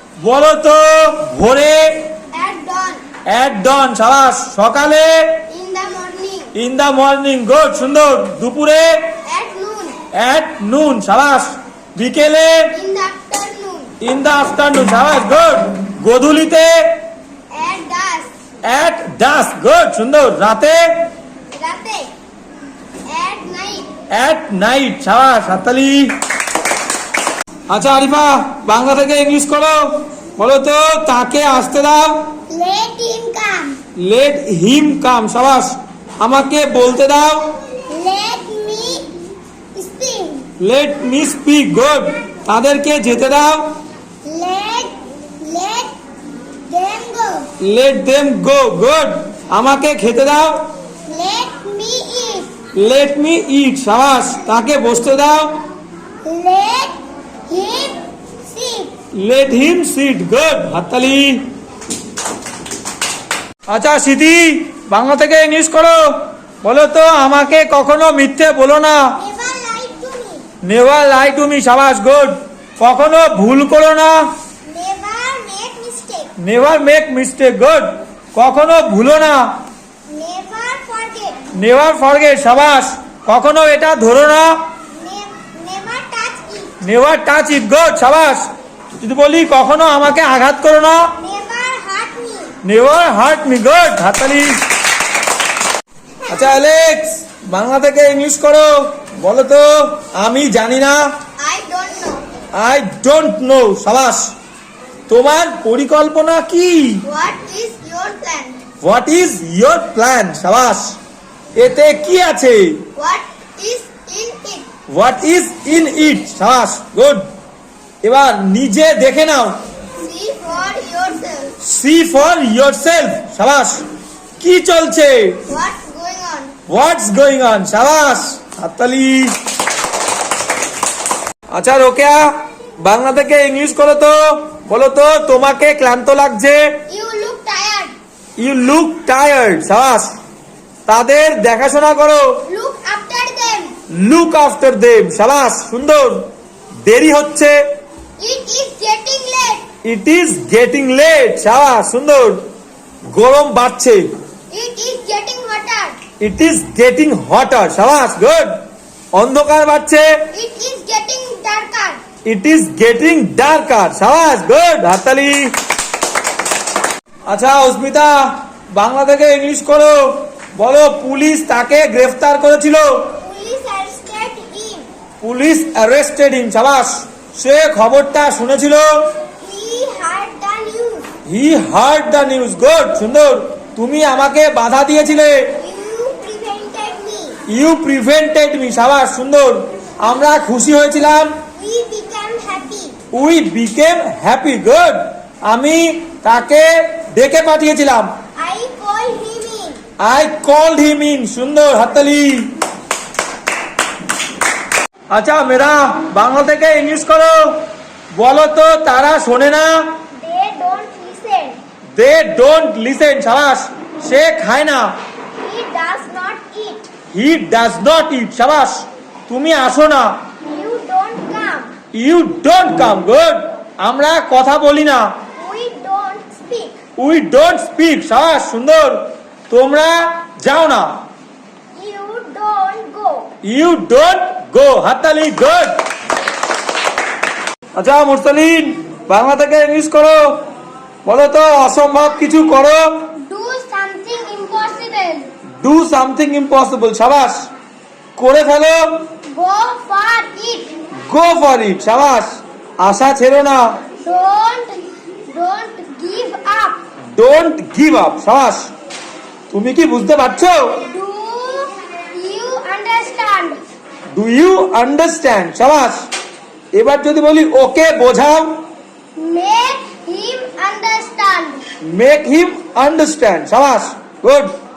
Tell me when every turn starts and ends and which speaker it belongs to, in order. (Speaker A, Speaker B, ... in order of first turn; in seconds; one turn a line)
Speaker A: 0.2-2.0
Speaker B: 2.3-3.0
Speaker A: 3.3-5.2
Speaker B: 5.5-6.5
Speaker A: 6.5-9.0
Speaker B: 9.2-10.0
Speaker A: 10.1-12.7
Speaker B: 12.7-13.9
Speaker A: 14.0-16.9
Speaker B: 17.5-18.3
Speaker A: 18.6-20.8
Speaker B: 21.5-22.1
Speaker B: 23.1-23.9
Speaker A: 24.1-26.1
Speaker A: 27.7-32.2
Speaker B: 32.5-33.8
Speaker A: 34.0-37.5
Speaker B: 37.9-39.1
Speaker B: 39.8-40.5
Speaker A: 40.6-43.8
Speaker B: 44.3-45.9
Speaker B: 46.7-47.5
Speaker A: 47.6-50.6
Speaker B: 51.1-52.5
Speaker A: 52.8-55.5
Speaker B: 56.2-57.0
Speaker B: 57.5-58.9
Speaker A: 59.2-61.5
Speaker A: 63.7-66.1
Speaker A: 66.6-69.2
Speaker B: 69.2-70.4
Speaker A: 70.6-74.2
Speaker B: 74.7-76.3
Speaker A: 76.4-79.5
Speaker B: 80.1-81.4
Speaker A: 81.5-84.5
Speaker B: 84.9-86.7
Speaker A: 86.8-88.5
Speaker A: 89.0-91.1
Speaker B: 91.2-92.5
Speaker A: 92.6-94.6
Speaker B: 96.2-96.6
Speaker A: 96.3-101.0
Speaker B: 101.4-102.2
Speaker A: 102.6-104.3
Speaker A: 105.1-107.0
Speaker B: 107.0-108.6
Speaker A: 108.8-111.0
Speaker A: 111.6-112.8
Speaker B: 113.0-114.7
Speaker A: 114.9-117.2
Speaker A: 118.0-119.6
Speaker B: 120.0-121.6
Speaker A: 121.6-123.9
Speaker A: 124.4-125.4
Speaker B: 125.5-126.5
Speaker A: 126.7-129.3
Speaker A: 131.5-132.3
Speaker A: 132.8-136.6
Speaker B: 136.9-137.9
Speaker A: 138.4-140.2
Speaker A: 140.9-142.2
Speaker B: 142.5-143.7
Speaker A: 143.9-146.3
Speaker A: 146.8-147.6
Speaker B: 148.2-149.7
Speaker A: 149.8-152.4
Speaker A: 153.1-154.0
Speaker B: 154.5-156.0
Speaker A: 156.2-158.6
Speaker A: 159.1-160.1
Speaker B: 160.3-162.0
Speaker A: 162.2-165.5
Speaker A: 167.3-173.2
Speaker B: 173.2-174.9
Speaker A: 175.2-179.0
Speaker B: 179.4-181.1
Speaker A: 181.3-185.5
Speaker B: 185.6-187.4
Speaker A: 187.5-191.4
Speaker B: 191.5-192.9
Speaker A: 193.1-198.1
Speaker B: 198.4-199.8
Speaker A: 200.0-202.5
Speaker A: 205.1-207.6
Speaker A: 208.1-209.8
Speaker B: 210.1-211.6
Speaker A: 212.0-214.9
Speaker B: 215.4-216.9
Speaker A: 217.1-220.1
Speaker B: 220.4-221.7
Speaker A: 221.9-225.1
Speaker B: 225.4-226.8
Speaker A: 227.0-231.0
Speaker B: 231.8-233.3
Speaker A: 233.4-235.8
Speaker A: 237.8-240.4
Speaker A: 241.0-243.1
Speaker B: 243.2-245.3
Speaker A: 245.6-247.4
Speaker A: 248.2-249.0
Speaker B: 249.3-250.7
Speaker A: 251.1-253.7
Speaker B: 254.0-256.8
Speaker A: 257.2-258.7
Speaker A: 259.5-260.8
Speaker B: 260.9-263.6
Speaker A: 264.1-266.1
Speaker A: 266.8-268.6
Speaker B: 269.2-271.6
Speaker A: 271.8-274.5